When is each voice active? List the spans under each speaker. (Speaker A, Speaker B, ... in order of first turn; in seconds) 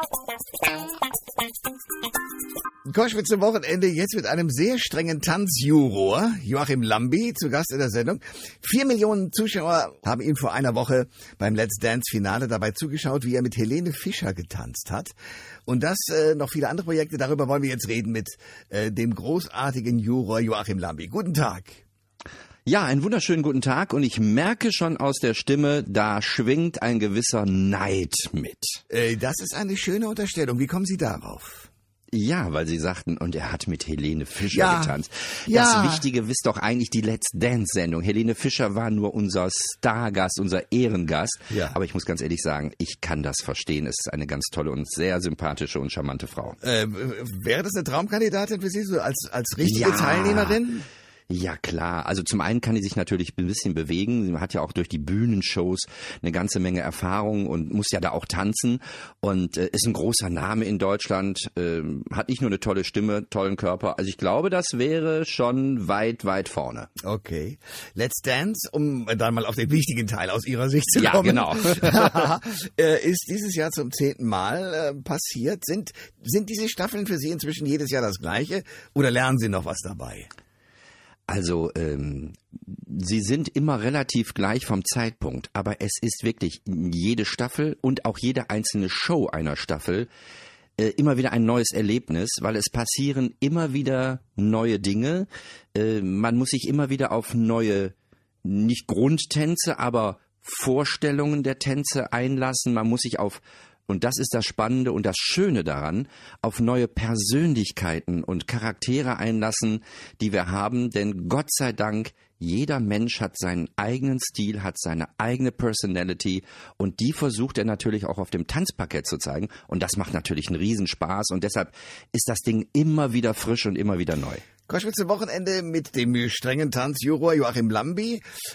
Speaker A: 2.9-15.1, 15.7-21.8, 28.9-31.7, 34.5-35.0, 35.5-36.1, 41.5-41.8, 46.6-50.9, 67.0-80.3, 124.7-128.2
Speaker B: 22.7-28.8, 32.1-46.6, 49.6-50.6, 51.3-66.9, 71.0-72.3, 81.3-90.1, 90.8-124.4